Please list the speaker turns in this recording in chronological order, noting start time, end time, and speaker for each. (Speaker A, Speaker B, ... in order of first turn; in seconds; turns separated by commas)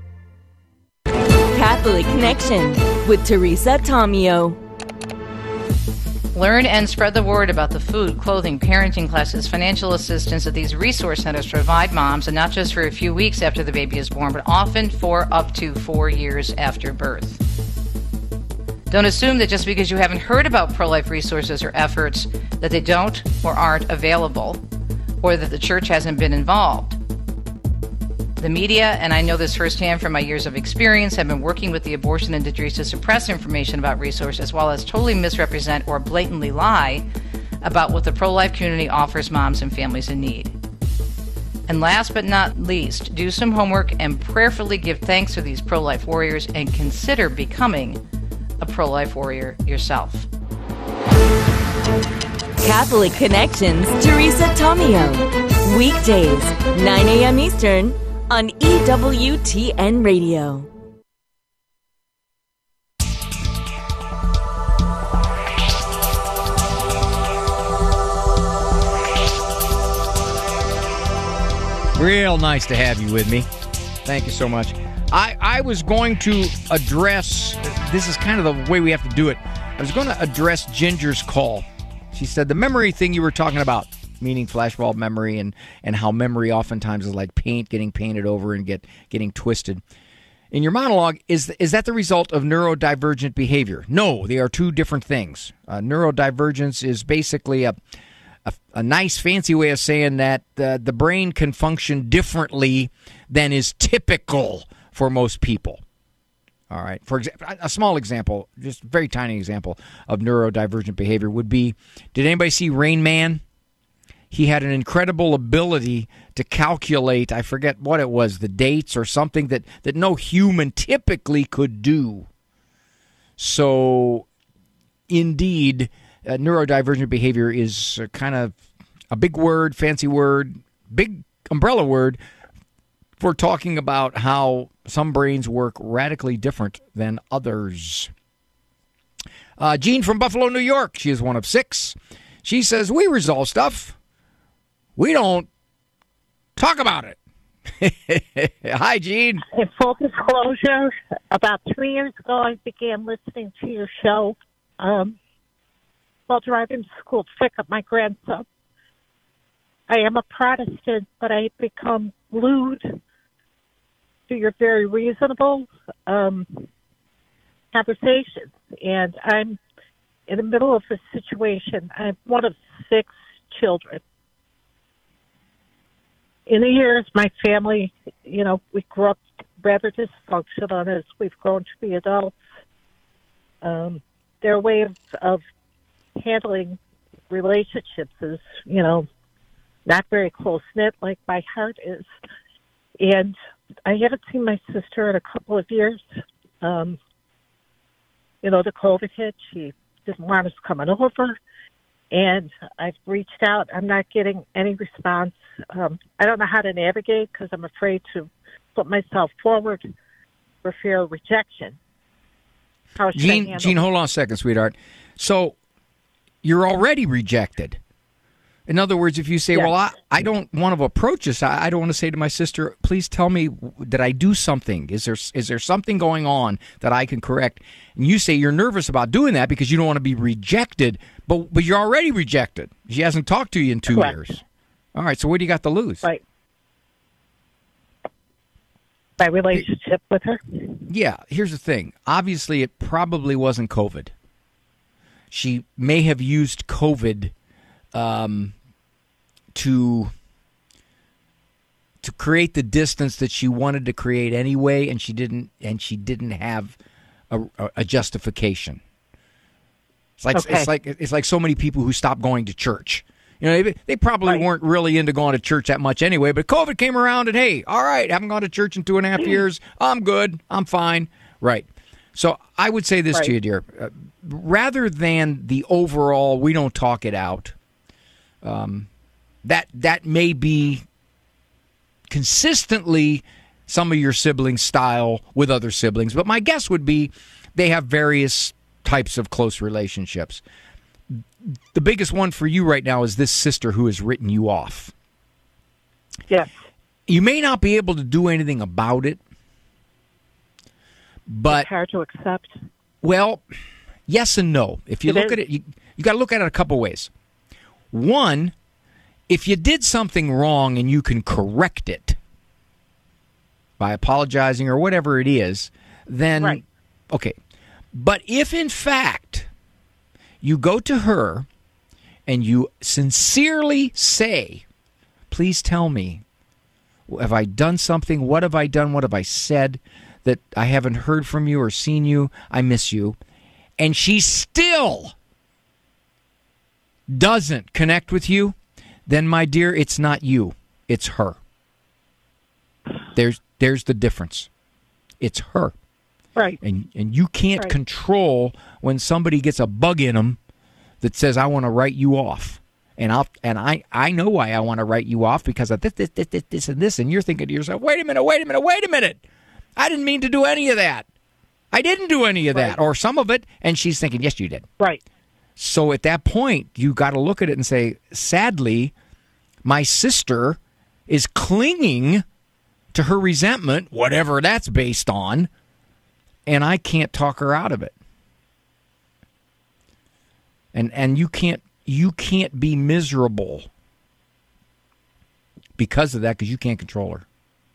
Speaker A: 1.5-4.6, Speaker B: 6.3-17.4, Speaker B: 18.9-24.6, Speaker B: 25.2-27.0, Speaker B: 28.4-37.0, Speaker B: 37.6-40.5, Speaker B: 41.7-48.0, Speaker B: 48.6-50.3, Speaker A: 52.6-60.7, Speaker C: 71.9-73.5, Speaker C: 74.0-89.8, Speaker C: 90.5-97.8, Speaker C: 98.5-105.8, Speaker C: 106.7-113.4, Speaker C: 114.3-122.3, Speaker C: 123.4-124.2, Speaker C: 125.1-128.6, Speaker C: 129.1-132.2, Speaker C: 133.2-138.1, Speaker C: 139.6-143.9, Speaker C: 144.9-145.5, Speaker C: 146.6-147.2, Speaker C: 147.8-149.4, Speaker D: 149.5-155.2, Speaker D: 156.3-158.4, Speaker D: 159.9-162.9, Speaker D: 164.3-166.6, Speaker D: 167.7-169.6, Speaker D: 170.3-174.0, Speaker D: 176.5-182.3, Speaker D: 183.6-185.4, Speaker D: 186.2-186.8, Speaker D: 187.3-189.1, Speaker D: 189.8-192.1, Speaker D: 193.0-196.1, Speaker D: 196.6-197.0, Speaker D: 198.4-201.4, Speaker D: 202.1-209.9, Speaker D: 210.6-211.8, Speaker D: 213.0-213.8, Speaker C: 213.1-215.6, Speaker C: 216.4-217.8, Speaker C: 218.7-234.4, Speaker D: 233.9-234.2, Speaker C: 234.9-236.1, Speaker D: 239.2-240.6, Speaker C: 240.9-244.1, Speaker C: 245.3-247.3, Speaker C: 247.9-248.5, Speaker C: 249.5-250.1, Speaker C: 252.0-256.8, Speaker C: 257.3-258.8, Speaker C: 260.2-277.5, Speaker D: 260.3-260.7, Speaker C: 278.4-278.9, Speaker C: 279.4-280.8, Speaker C: 282.1-290.4, Speaker C: 291.1-294.9, Speaker C: 297.1-299.2, Speaker C: 301.3-301.7, Speaker D: 301.5-302.5, Speaker C: 303.0-303.4, Speaker C: 304.1-307.1, Speaker D: 305.1-305.4, Speaker C: 307.9-308.5, Speaker C: 309.3-312.2, Speaker C: 313.8-317.4, Speaker C: 317.9-319.5, Speaker C: 320.4-321.5, Speaker C: 322.2-324.6, Speaker C: 325.3-326.2, Speaker C: 327.1-333.2, Speaker C: 333.8-335.1, Speaker C: 337.1-341.4, Speaker C: 343.1-344.5, Speaker C: 345.2-345.7, Speaker C: 346.6-350.4, Speaker C: 351.0-359.2, Speaker C: 359.8-361.1, Speaker C: 361.7-364.6, Speaker D: 362.5-362.8, Speaker C: 365.6-368.9, Speaker C: 369.6-372.2, Speaker C: 372.9-375.5, Speaker C: 376.4-377.9, Speaker C: 380.7-383.7, Speaker C: 385.8-387.2